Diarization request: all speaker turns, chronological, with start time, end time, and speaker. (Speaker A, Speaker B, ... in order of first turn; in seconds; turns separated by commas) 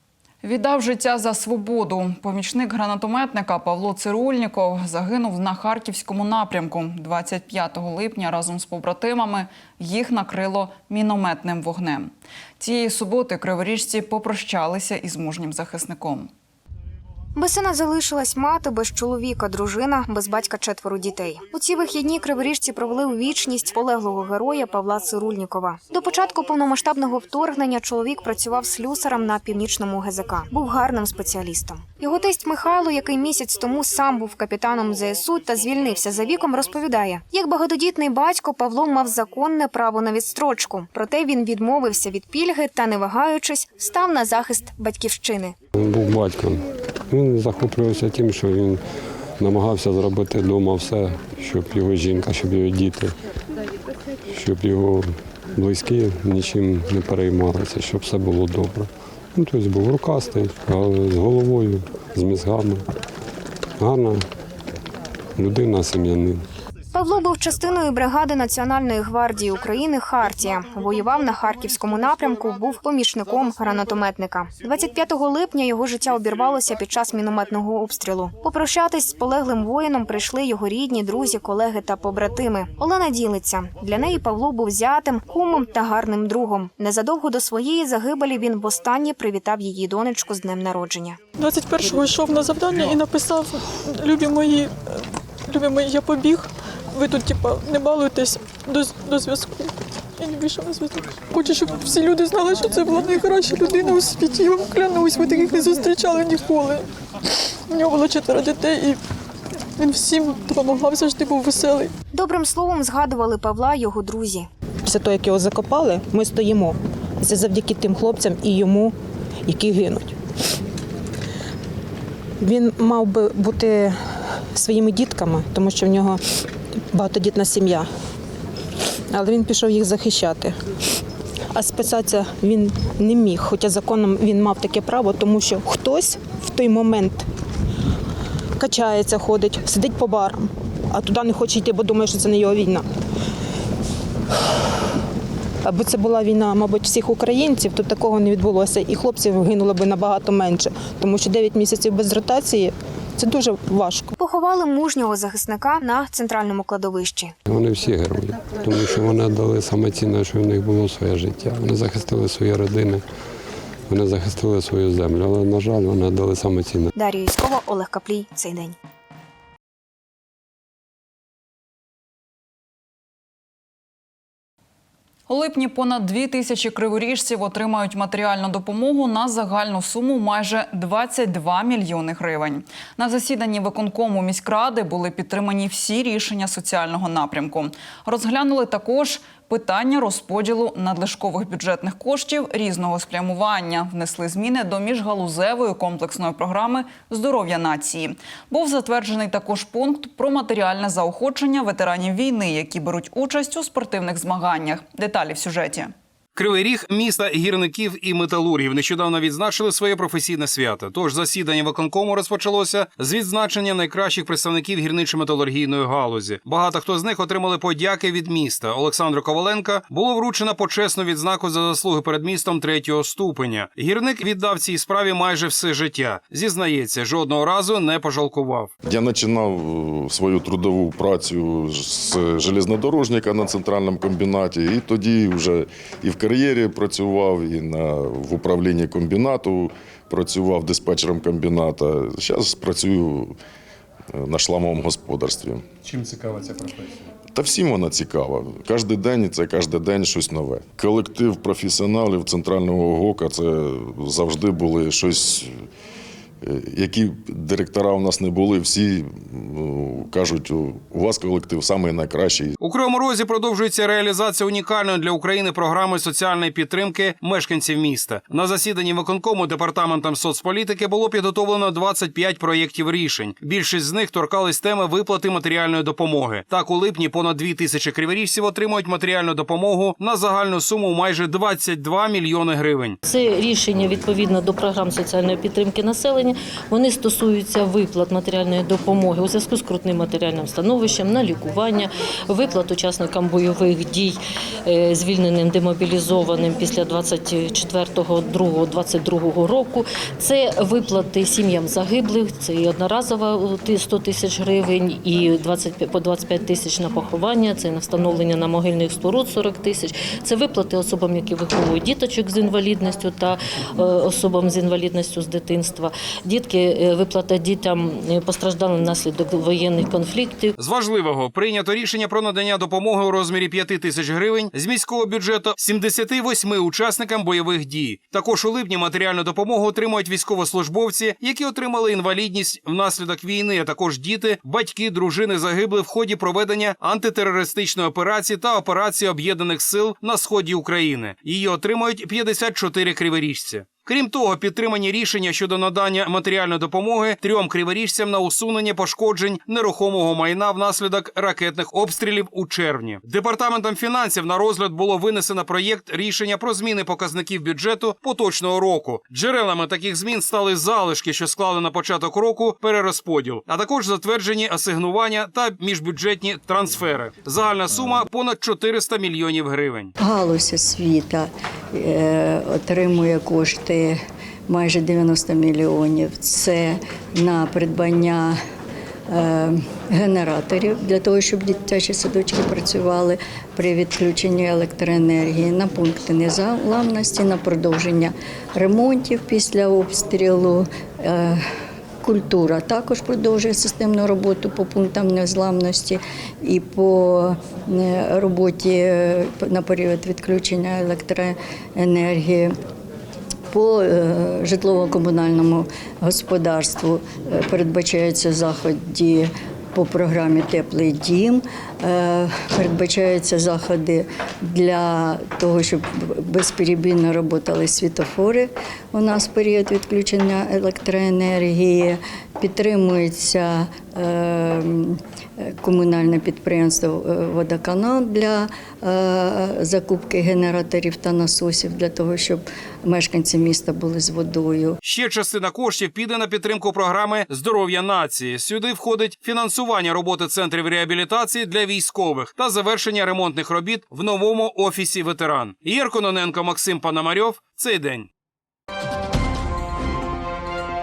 Speaker A: 0.4-16.3, Speaker B: 17.4-45.5, Speaker C: 45.8-48.8, Speaker C: 49.4-53.2, Speaker C: 54.3-62.9, Speaker C: 63.8-64.2, Speaker C: 65.4-66.4, Speaker B: 66.9-91.2, Speaker D: 91.4-106.9, Speaker D: 107.7-109.0, Speaker D: 109.8-111.9, Speaker B: 112.1-114.5, Speaker E: 114.8-119.0, Speaker E: 119.5-120.2, Speaker E: 122.4-126.2, Speaker E: 126.9-127.9, Speaker E: 129.1-130.6, Speaker E: 131.5-137.3, Speaker E: 138.6-142.9, Speaker E: 145.6-154.1, Speaker B: 154.2-157.3, Speaker C: 157.5-163.0, Speaker C: 163.9-166.9, Speaker B: 166.9-168.8, Speaker A: 175.3-205.9, Speaker F: 206.3-228.7, Speaker G: 228.8-243.4, Speaker G: 244.1-245.7, Speaker G: 247.3-255.6, Speaker G: 256.4-262.5, Speaker F: 262.6-283.0, Speaker H: 283.1-320.5, Speaker F: 320.6-369.9, Speaker I: 370.0-378.4, Speaker I: 379.1-391.4, Speaker I: 392.0-402.5, Speaker I: 403.5-434.8, Speaker F: 434.8-448.1